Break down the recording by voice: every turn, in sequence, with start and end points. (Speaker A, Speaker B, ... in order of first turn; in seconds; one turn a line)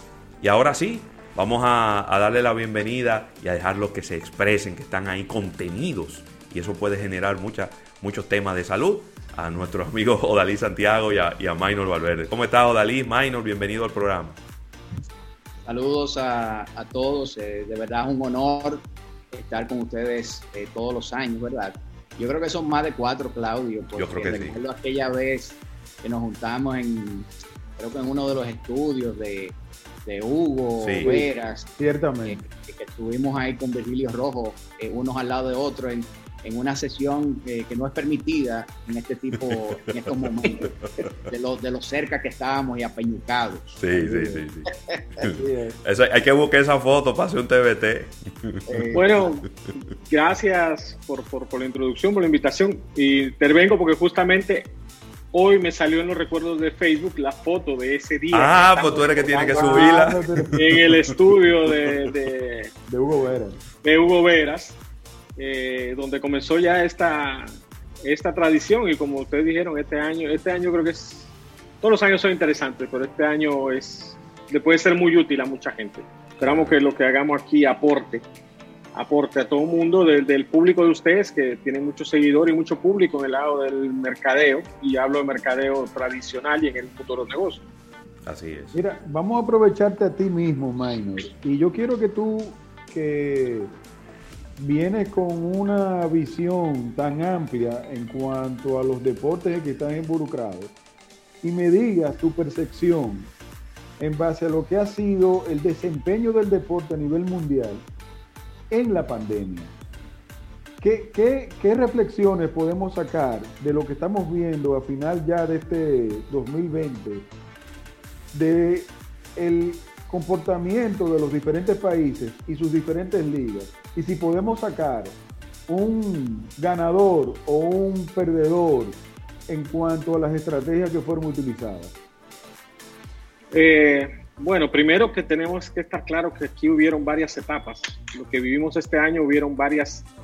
Speaker A: 0.4-14.4
Speaker B: 15.6-27.3
Speaker A: 23.9-24.6
Speaker B: 27.8-31.7
Speaker A: 30.8-31.2
Speaker C: 31.0-32.4
Speaker B: 32.2-45.3
Speaker A: 39.4-41.1
Speaker A: 43.8-48.9
Speaker C: 45.2-45.8
Speaker B: 48.7-49.0
Speaker D: 48.9-54.7
Speaker D: 55.3-62.7
Speaker A: 58.3-60.9
Speaker C: 59.4-60.6
Speaker C: 62.9-63.6
Speaker D: 63.8-64.8
Speaker D: 65.4-78.2
Speaker A: 76.4-76.8
Speaker D: 78.9-87.6
Speaker A: 88.2-88.8
Speaker C: 88.7-93.8
Speaker C: 94.6-100.7
Speaker C: 101.4-103.3
Speaker C: 104.0-107.8
Speaker C: 108.7-109.7
Speaker C: 110.8-117.3
Speaker C: 118.3-125.2
Speaker C: 125.7-131.9
Speaker D: 133.5-140.1